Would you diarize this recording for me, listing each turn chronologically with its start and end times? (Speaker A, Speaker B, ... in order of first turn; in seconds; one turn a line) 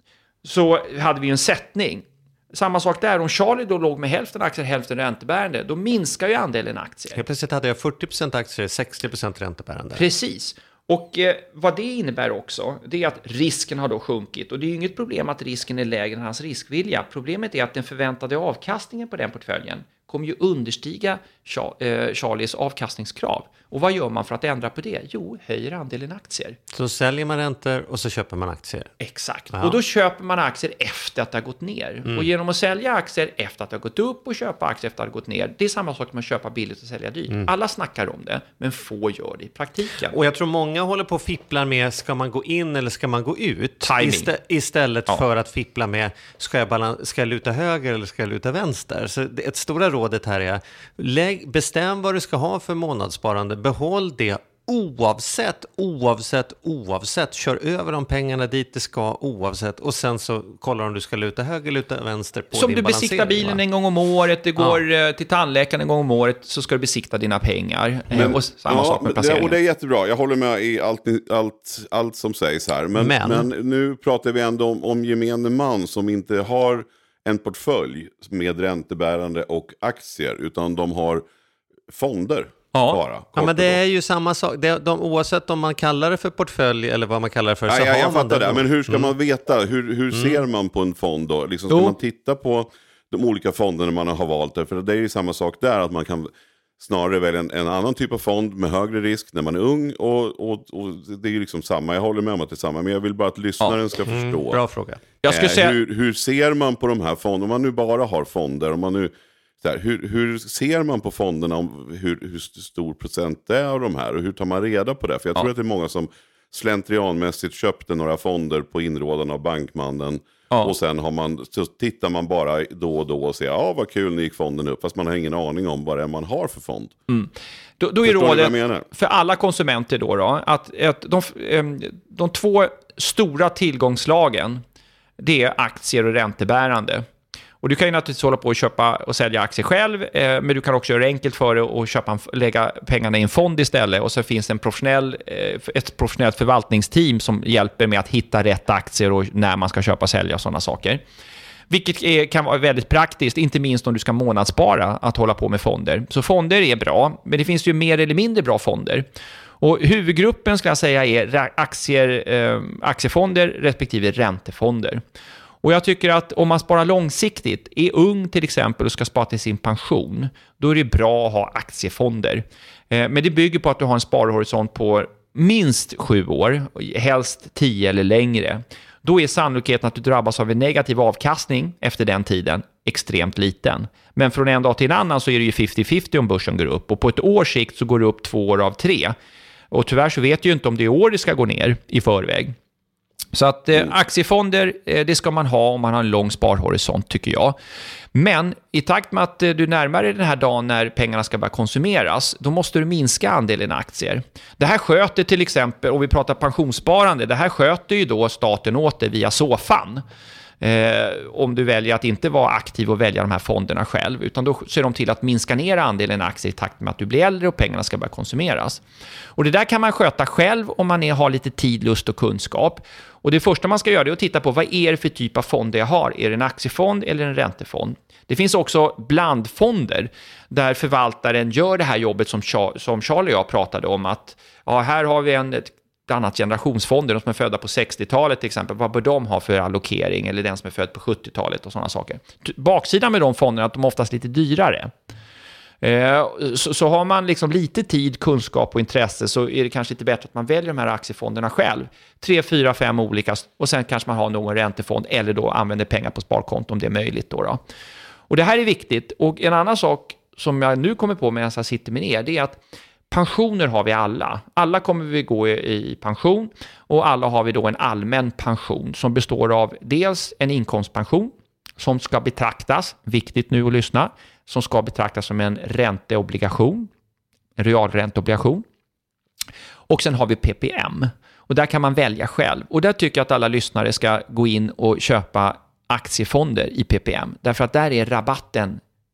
Speaker A: 0.4-7.2
Speaker B: 7.1-10.1
Speaker A: 9.9-26.6
Speaker B: 26.7-28.9
Speaker A: 29.0-40.1
Speaker B: 29.5-29.8
Speaker B: 40.1-63.6
Speaker A: 43.8-44.3
Speaker A: 62.5-69.6
Speaker B: 64.6-64.8
Speaker C: 68.1-81.2
Speaker B: 73.0-73.5
Speaker C: 81.9-83.8
Speaker A: 82.7-83.0
Speaker B: 83.3-89.1
Speaker C: 87.7-104.6
Speaker A: 91.7-92.0
Speaker B: 104.0-105.0
Speaker A: 105.2-105.8
Speaker C: 105.3-127.0
Speaker A: 127.1-134.6
Speaker C: 128.0-128.9
Speaker A: 135.2-137.1
Speaker A: 137.6-151.0
Speaker A: 151.7-159.1
Speaker A: 159.6-165.0
Speaker A: 165.6-189.1
Speaker A: 189.7-192.6
Speaker A: 193.3-197.6
Speaker A: 198.1-210.0
Speaker A: 210.6-218.8
Speaker A: 219.3-244.9
Speaker A: 245.8-257.6
Speaker A: 258.3-276.9
Speaker A: 277.6-278.6
Speaker A: 279.9-288.8